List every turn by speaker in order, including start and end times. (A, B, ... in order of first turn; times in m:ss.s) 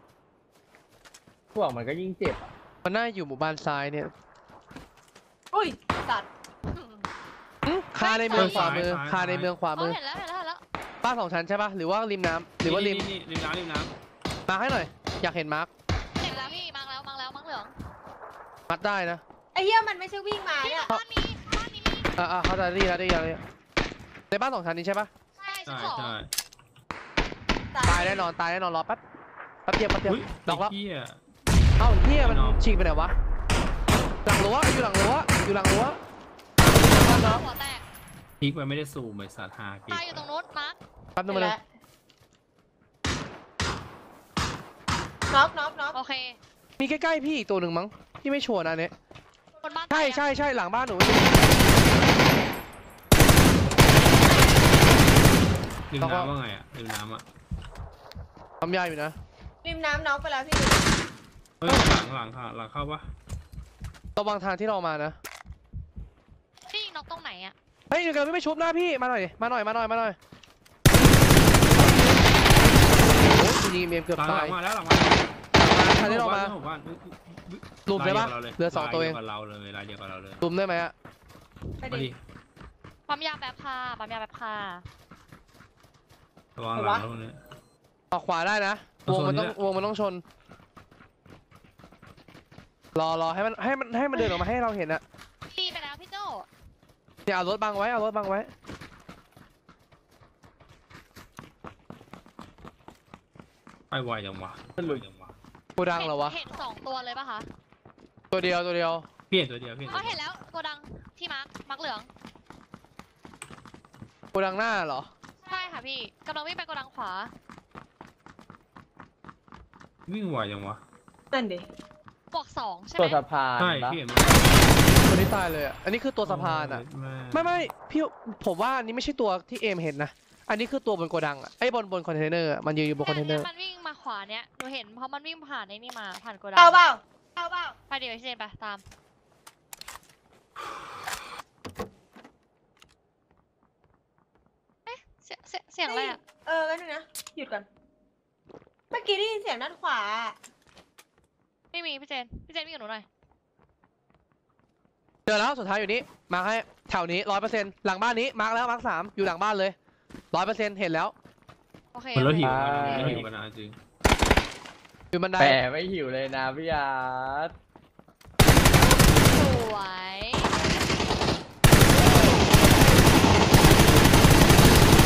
0:01.5-0:02.5 A
0:02.8-0:04.1 B
0:05.5-0:06.3 C
0:06.7-0:07.0 D
0:07.6-0:10.0 B
0:08.0-0:08.8 D
0:08.3-0:09.5 E
0:09.7-0:10.6 D
0:11.0-0:13.1 B
0:12.6-0:13.9 E
0:14.5-0:15.7 B
0:16.2-0:17.7 D
0:18.7-0:19.2 B
0:19.5-0:20.9 C
0:20.6-0:22.1 D
0:22.2-0:23.4 B
0:24.3-0:25.1 B
0:25.4-0:26.2 D
0:25.7-0:26.3 E
0:27.7-0:28.3 C
0:27.9-0:29.0 B
0:29.6-0:30.7 B
0:30.0-0:31.2 E
0:31.8-0:33.1 B
0:32.2-0:32.6 E
0:34.2-0:36.0 B
0:36.6-0:37.4 B
0:36.8-0:37.8 D
0:38.4-0:40.3 E
0:39.9-0:40.8 D
0:41.2-0:41.6 B
0:41.3-0:41.6 C
0:45.3-0:46.0 C
0:45.9-0:46.4 D
0:46.8-0:48.9 B
0:49.6-0:50.3 D
0:49.9-0:51.6 B
0:55.9-0:57.2 E
0:56.0-0:56.3 B
0:58.6-0:59.2 B
0:59.6-1:00.9 C
1:01.6-1:03.1 E
1:04.2-1:05.2 B
1:06.7-1:07.5 D
1:07.9-1:10.2 B
1:11.7-1:12.2 B
1:12.9-1:14.6 B
1:14.2-1:20.4 E
1:15.6-1:16.5 B
1:17.9-1:19.2 B
1:20.4-1:20.9 B
1:21.8-1:22.1 C
1:21.8-1:22.2 E
1:23.1-1:24.8 D
1:26.6-1:27.4 E
1:26.7-1:27.1 C
1:28.1-1:30.2 B
1:29.0-1:29.6 E
1:32.9-1:35.0 B
1:34.2-1:34.4 D
1:35.5-1:36.5 D
1:37.2-1:38.5 B
1:43.9-1:45.3 E
1:44.8-1:45.0 A
1:45.8-1:46.4 B
1:45.9-1:47.5 D
1:48.3-1:49.0 B
1:49.3-1:50.2 E
1:49.9-1:52.1 D
1:54.3-1:55.1 B
1:55.4-1:57.3 D
2:00.1-2:00.8 E
2:01.3-2:01.7 C
2:02.3-2:03.2 D
2:03.0-2:04.0 A
2:03.6-2:04.8 E
2:04.9-2:13.5 B
2:06.2-2:07.6 E
2:13.0-2:16.8 D
2:16.6-2:17.7 C
2:17.9-2:18.8 D
2:24.8-2:26.2 D
2:25.8-2:27.6 C
2:28.9-2:30.4 C
2:31.7-2:33.0 D
2:35.2-2:39.8 B
2:40.3-2:41.1 B
2:41.9-2:43.2 D
2:42.1-2:43.8 E
2:42.4-2:43.3 A
2:45.1-2:45.6 B
2:45.4-2:47.5 A
2:49.1-2:50.5 D